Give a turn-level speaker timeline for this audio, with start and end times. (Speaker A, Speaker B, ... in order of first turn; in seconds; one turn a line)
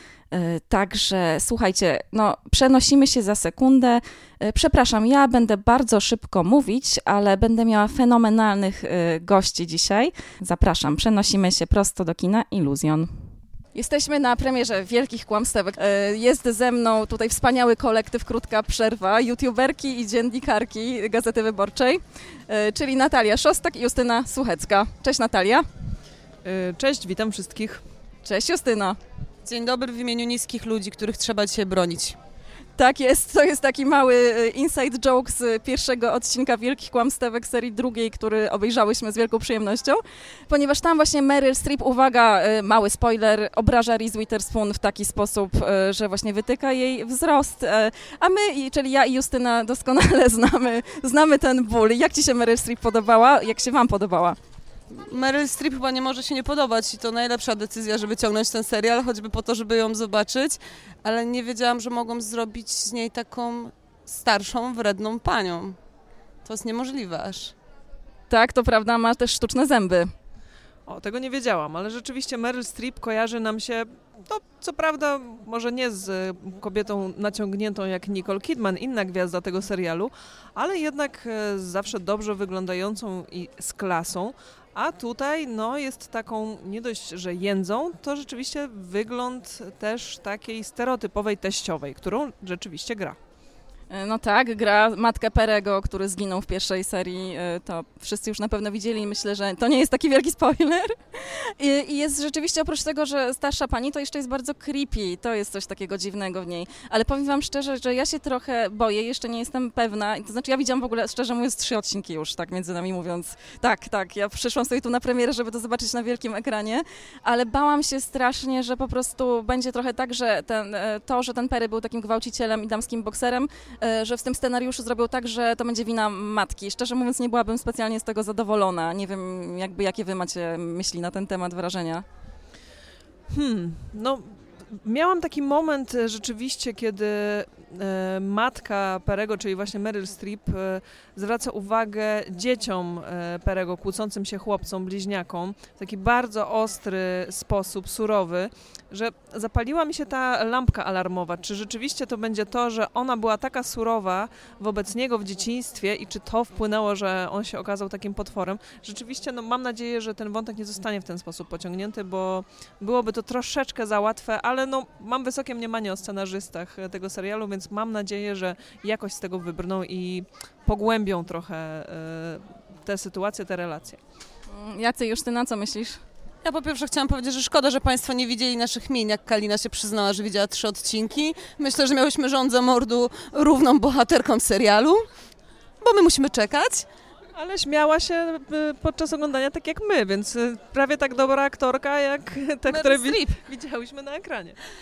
Speaker A: 0.3-13.1
Speaker A: 13.7-25.6
Speaker B: 26.4-27.8
Speaker A: 28.2-29.0
Speaker C: 29.4-32.2
Speaker A: 32.8-54.4
Speaker C: 54.9-65.8
Speaker C: 66.4-67.5
Speaker A: 68.3-70.1
Speaker B: 70.9-93.2
Speaker A: 93.9-132.0
Speaker B: 133.3-174.0
Speaker A: 174.5-176.0
Speaker C: 176.4-185.0
Speaker C: 185.8-186.9
Speaker B: 187.3-194.6
Speaker C: 192.7-193.3